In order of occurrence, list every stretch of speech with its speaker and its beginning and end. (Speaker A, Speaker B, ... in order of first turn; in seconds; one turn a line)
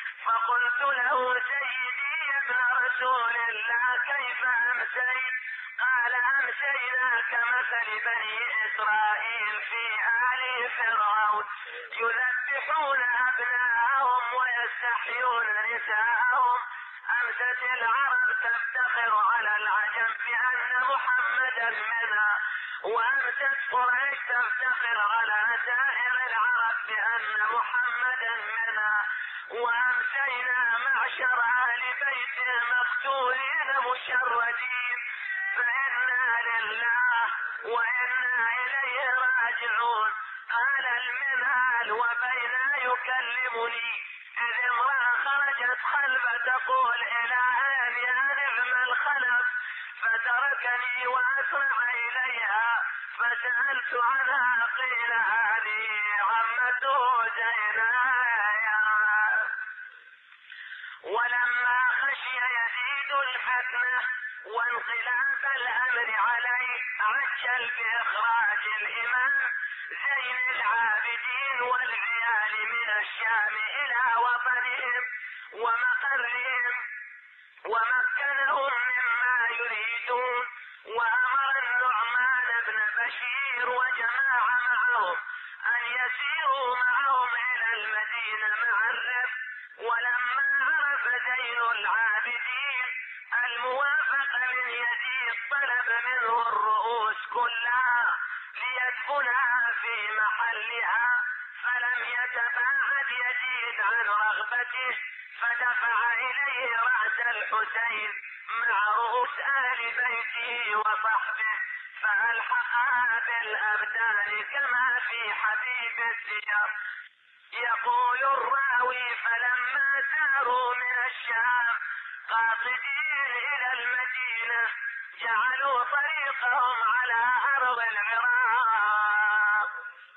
Speaker A: 0.2-59.5
Speaker A: 61.0-76.8
Speaker A: 77.6-116.7
Speaker A: 117.6-129.7